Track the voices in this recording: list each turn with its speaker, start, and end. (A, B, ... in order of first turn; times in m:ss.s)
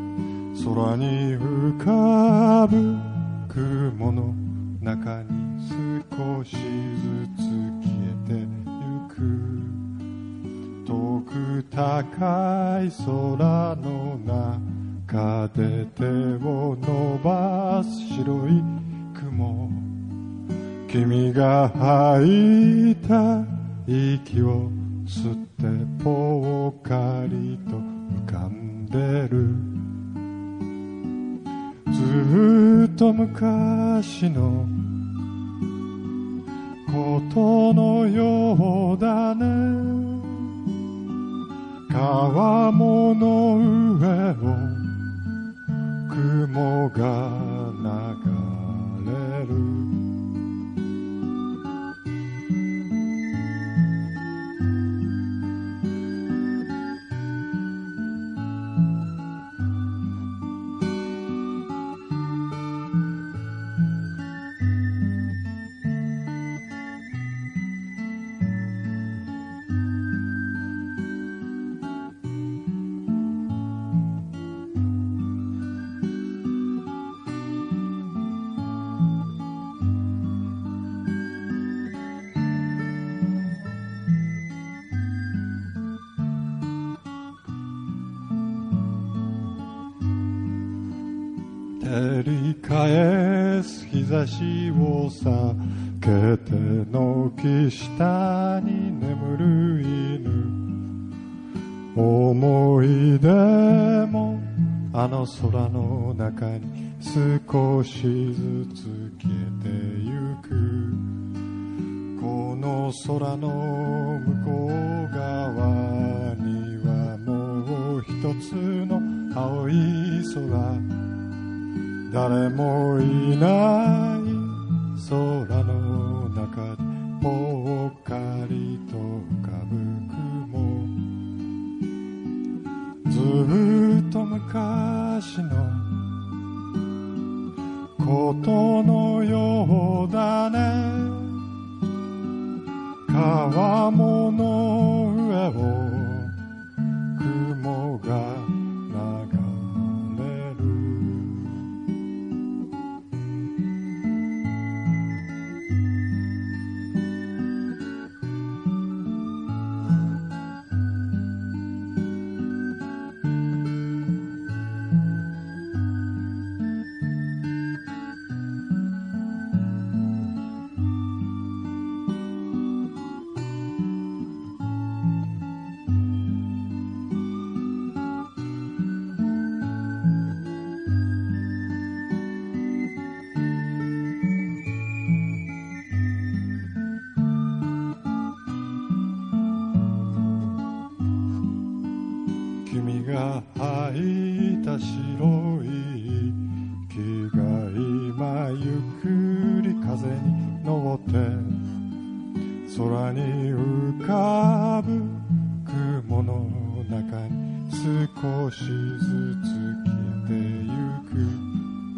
0:00.5-0:09.8 A
0:10.8-0:20.0 A
0:20.9-0:29.8 A
0:31.9-0:34.9 A
0:36.8-0:40.6 A
0:41.9-0:45.0 A
0:46.1-0:50.0 A
1:31.8-1:40.7 A
1:41.9-1:51.1 A
1:52.1-2:01.0 A
2:02.1-2:11.1 A
2:13.0-2:16.1 A
2:18.0-2:21.4 A
2:23.1-2:26.4 A
2:27.1-2:31.6 A
3:12.6-3:21.7 A
3:22.6-3:31.6 A